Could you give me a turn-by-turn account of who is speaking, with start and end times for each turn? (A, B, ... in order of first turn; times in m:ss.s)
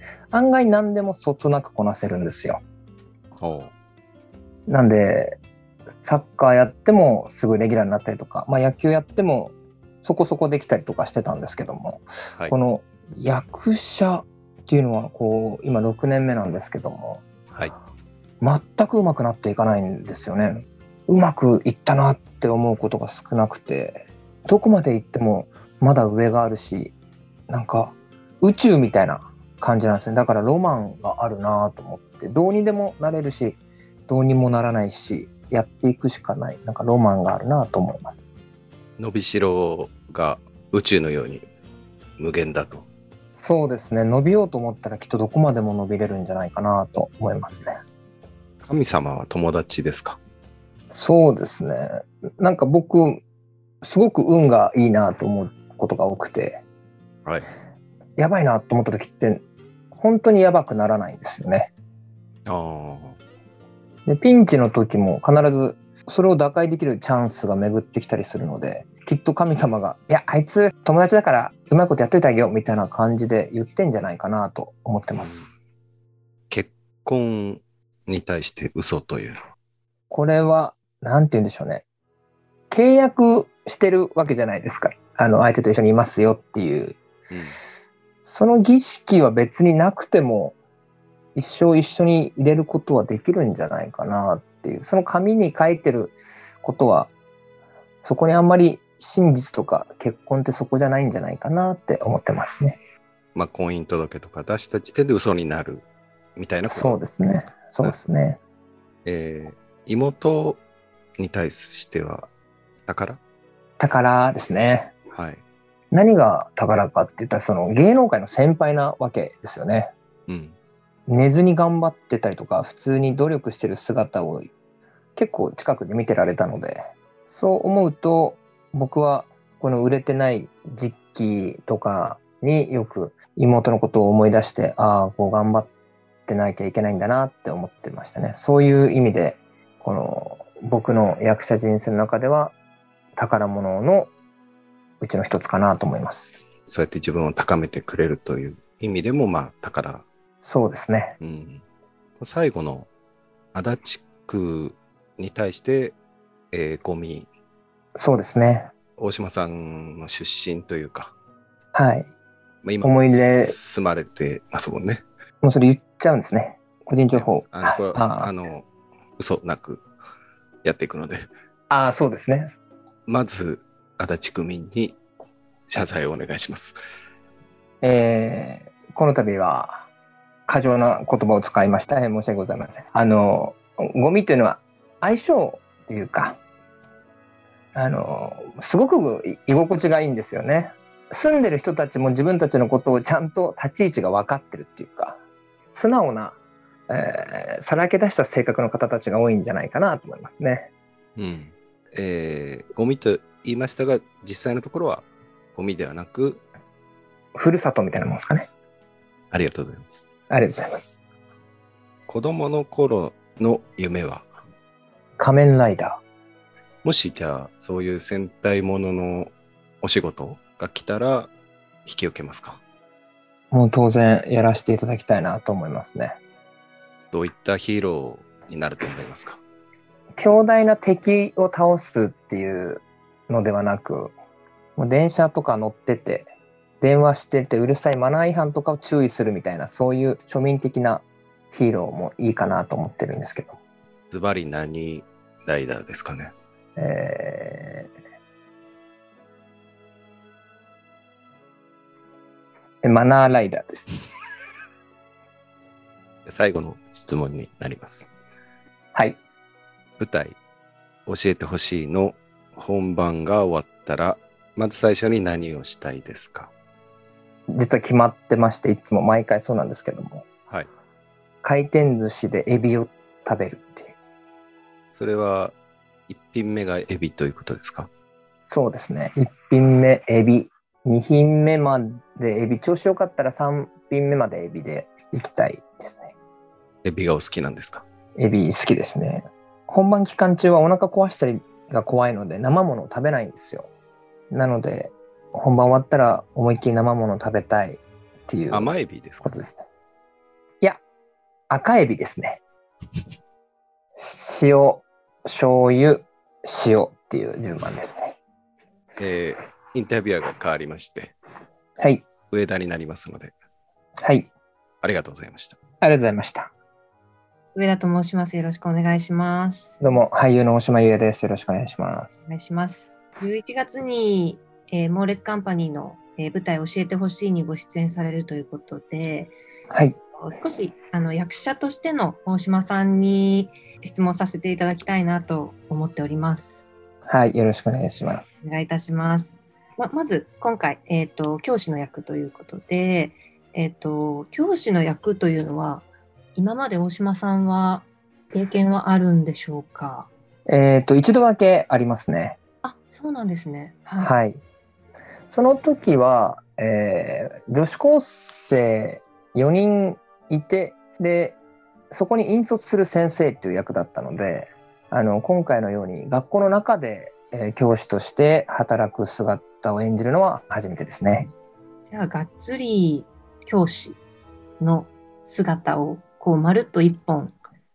0:00.3-0:02.6 A
0:03.4-0:03.7 B
0:04.7-0:05.4 A
0:06.0-0:17.2 A
0:18.4-0:26.9 A
0:27.5-0:38.3 A
0:39.0-0:41.4 B
0:42.2-0:42.8 B
0:43.4-0:47.8 A
0:48.6-0:50.2 B
0:50.9-0:53.2 A
0:53.8-0:56.6 A
0:58.2-0:59.4 A
0:59.9-1:01.7 A
1:02.4-1:03.2 B
1:04.0-1:15.4 A
1:15.1-1:15.5 B
1:16.5-1:19.4 B
1:20.1-1:21.8 A
1:22.7-1:27.0 A
1:27.3-1:27.6 B
1:28.2-1:30.5 A
1:31.3-1:37.1 A
1:38.0-1:42.8 A
1:43.3-1:45.8 B
1:46.4-1:47.9 B
1:46.7-1:48.4 A
1:49.0-1:50.6 B
1:51.2-1:52.3 B
1:52.9-1:53.2 B
1:53.8-1:54.9 A
1:55.1-1:55.4 B
1:55.9-1:59.9 A
2:00.3-2:00.5 B
2:01.1-2:04.5 A
2:05.2-2:15.7 A
2:16.3-2:22.5 A
2:23.2-2:24.1 A
2:25.0-2:26.4 A
2:26.7-2:30.0 B
2:30.4-2:31.2 A
2:31.2-2:31.6 B
2:32.2-2:32.9 B
2:33.5-2:35.9 B
2:36.5-2:37.3 B
2:38.0-2:38.7 A
2:39.0-2:41.1 B
2:41.7-2:42.1 A
2:42.6-2:45.0 B
2:42.8-2:43.5 A
2:45.4-2:48.3 A
2:47.1-2:48.6 B
2:49.2-2:49.8 B
2:50.6-2:51.3 B
2:51.7-2:52.5 A
2:53.1-2:55.0 B
2:55.7-2:56.8 B
2:57.8-2:59.8 A
3:00.5-3:06.4 A
3:07.7-3:15.2 A
3:15.7-3:16.4 A
3:16.9-3:20.7 A
3:21.2-3:26.4 B
3:27.3-3:28.5 A
3:29.3-3:30.0 B
3:30.3-3:31.0 A
3:32.1-3:34.3 B
3:35.2-3:36.0 A
3:36.8-3:39.3 B
3:39.8-3:41.3 B
3:41.8-3:42.6 B
3:43.5-3:46.2 A
3:47.1-3:49.4 B
3:50.2-3:54.1 A
3:54.8-3:56.3 A
3:56.8-4:03.6 A
4:04.1-4:06.3 B
4:06.8-4:07.9 A
4:12.8-4:13.9 A
4:16.2-4:18.1 B
4:20.0-4:20.4 B
4:21.1-4:26.5 B
4:27.5-4:30.2 A
4:31.4-4:33.9 A
4:34.9-4:35.5 B
4:36.1-4:37.9 B
4:38.4-4:46.1 A
4:46.8-4:47.8 B
4:48.2-4:53.7 A
4:54.3-4:59.6 A
4:58.5-4:59.3 B
5:01.5-5:02.4 A
5:04.0-5:08.2 A
5:09.0-5:11.1 B
5:11.8-5:12.0 A
5:12.3-5:13.3 B
5:14.0-5:14.3 A
5:14.8-5:15.6 B
5:15.8-5:16.5 A
5:17.5-5:19.8 C
5:19.8-5:22.4 A
5:22.3-5:29.3 C
5:29.7-5:30.0 A
5:30.2-5:36.6 C
5:37.1-5:38.4 A
5:38.4-5:50.1 C
5:50.5-5:52.4 A
5:52.6-5:54.1 C
5:54.0-5:54.4 A
5:55.3-6:01.4 A
6:01.9-6:11.3 A
6:11.9-6:14.0 C
6:14.6-6:17.4 C